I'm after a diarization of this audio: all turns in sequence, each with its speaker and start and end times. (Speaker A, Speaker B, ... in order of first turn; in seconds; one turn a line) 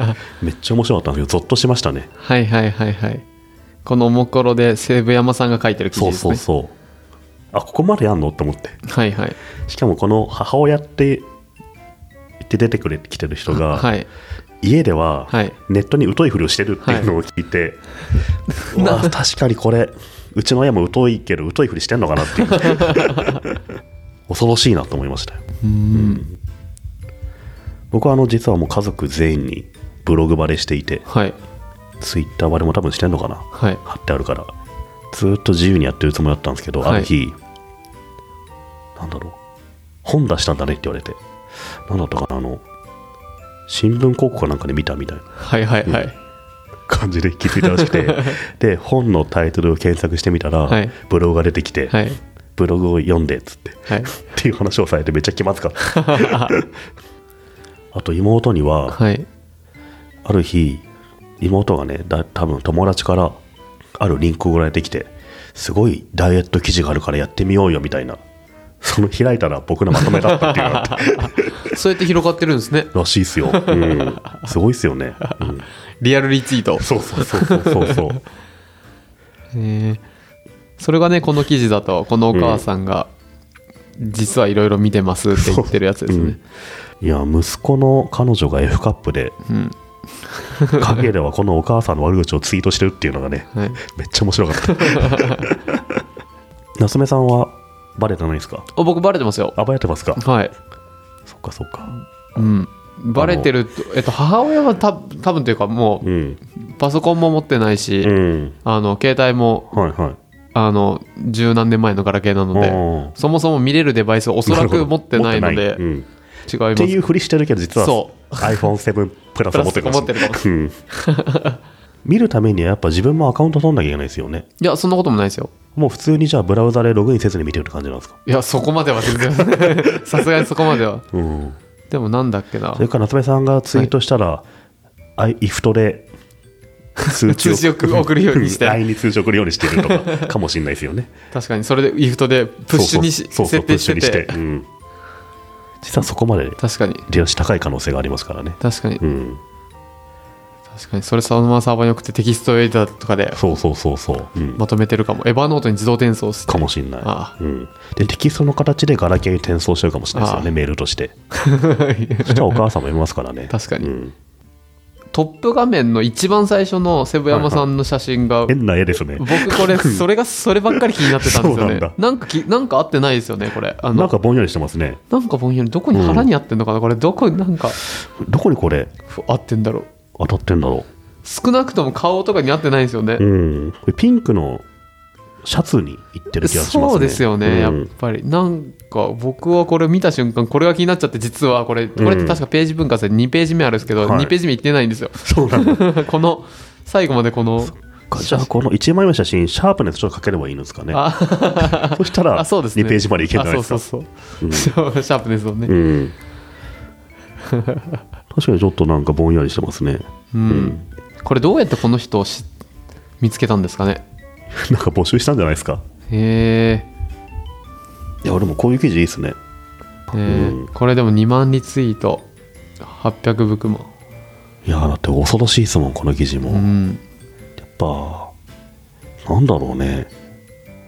Speaker A: 0.4-2.1
Speaker B: 2.2-3.2
Speaker B: 3.9-6.4
Speaker A: 5.9-6.7
Speaker A: 7.5-8.8
Speaker B: 8.9-9.4
Speaker A: 9.7-11.2
Speaker A: 12.4-13.9
Speaker B: 13.5-14.1
Speaker A: 14.6-17.8
Speaker B: 15.3-15.6
Speaker B: 16.8-17.1
Speaker A: 18.7-23.6
Speaker B: 18.7-19.1
Speaker B: 22.6-23.2
Speaker A: 24.3-26.4
Speaker B: 25.6-26.2
Speaker A: 27.9-31.1
Speaker B: 31.1-31.4
Speaker A: 32.0-34.5
Speaker B: 33.5-33.8
Speaker A: 35.1-37.4
Speaker B: 36.8-37.1
Speaker A: 39.0-39.4
Speaker A: 40.0-41.2
Speaker A: 41.9-42.6
Speaker A: 43.7-45.3
Speaker B: 45.4-46.1
Speaker A: 46.9-52.0
Speaker B: 47.6-48.4
Speaker B: 50.7-50.9
Speaker B: 51.9-52.2
Speaker A: 52.6-56.7
Speaker B: 56.0-56.5
Speaker A: 57.9-59.0
Speaker B: 58.9-59.3
Speaker A: 60.2-60.9
Speaker A: 61.4-63.4
Speaker A: 64.0-68.2
Speaker A: 68.8-71.7
Speaker B: 70.0-72.9
Speaker A: 72.9-75.7
Speaker B: 73.5-74.5
Speaker B: 75.2-78.0
Speaker A: 76.8-78.2
Speaker B: 79.5-80.0
Speaker B: 80.8-83.1
Speaker A: 82.3-82.7
Speaker B: 84.0-86.4
Speaker A: 85.3-86.4
Speaker A: 87.0-89.3
Speaker B: 89.5-89.8
Speaker B: 90.4-91.0
Speaker A: 90.7-95.8
Speaker B: 93.5-93.8
Speaker B: 94.6-95.4
Speaker A: 96.8-98.7
Speaker B: 98.7-99.6
Speaker A: 99.6-100.2
Speaker B: 100.2-100.5
Speaker A: 101.3-101.9
Speaker B: 102.4-109.7
Speaker A: 103.2-103.5
Speaker A: 106.0-106.4
Speaker A: 108.0-108.6
Speaker A: 109.7-110.2
Speaker B: 110.5-115.8
Speaker A: 112.5-113.2
Speaker A: 114.5-116.1
Speaker B: 116.5-117.0
Speaker A: 116.8-120.8
Speaker B: 117.8-118.7
Speaker B: 119.5-121.6
Speaker A: 122.0-124.5
Speaker B: 124.6-125.5
Speaker A: 125.8-128.2
Speaker B: 128.3-131.1
Speaker A: 129.7-130.2
Speaker A: 131.1-131.6
Speaker B: 131.9-132.8
Speaker A: 132.8-134.4
Speaker A: 135.2-136.1
Speaker A: 137.0-141.1
Speaker B: 137.0-138.8
Speaker B: 139.7-140.3
Speaker B: 141.3-144.4
Speaker A: 142.7-144.7
Speaker A: 145.8-149.4
Speaker B: 146.6-147.1
Speaker B: 148.6-149.0
Speaker B: 150.7-153.4
Speaker A: 153.3-154.6
Speaker B: 154.6-157.3
Speaker A: 156.5-161.1
Speaker B: 160.1-160.5
Speaker B: 161.3-162.6
Speaker A: 162.2-164.1
Speaker B: 163.5-163.9
Speaker B: 165.1-168.5
Speaker A: 167.3-167.7
Speaker A: 168.5-170.1
Speaker B: 169.2-174.1
Speaker A: 170.7-172.0
Speaker A: 173.9-175.0
Speaker B: 175.1-177.8
Speaker A: 175.9-176.3
Speaker A: 177.9-178.9
Speaker B: 179.1-179.9
Speaker A: 180.2-180.9
Speaker B: 181.2-183.2
Speaker A: 183.2-184.6
Speaker A: 185.4-187.9
Speaker B: 186.4-198.5
Speaker A: 192.0-192.4
Speaker A: 194.0-194.3
Speaker A: 195.2-195.9
Speaker A: 198.1-201.0
Speaker B: 200.9-205.7
Speaker A: 201.6-203.8
Speaker A: 204.4-204.8
Speaker A: 205.7-206.2
Speaker B: 207.4-208.0
Speaker A: 208.3-210.8
Speaker B: 210.3-212.5
Speaker B: 213.2-214.0
Speaker A: 214.5-215.8
Speaker B: 216.1-216.9
Speaker A: 218.2-219.4
Speaker B: 220.1-222.3
Speaker A: 220.3-220.7
Speaker B: 222.8-223.9
Speaker A: 224.7-226.7
Speaker B: 226.5-227.0
Speaker A: 227.6-228.3
Speaker A: 229.3-230.1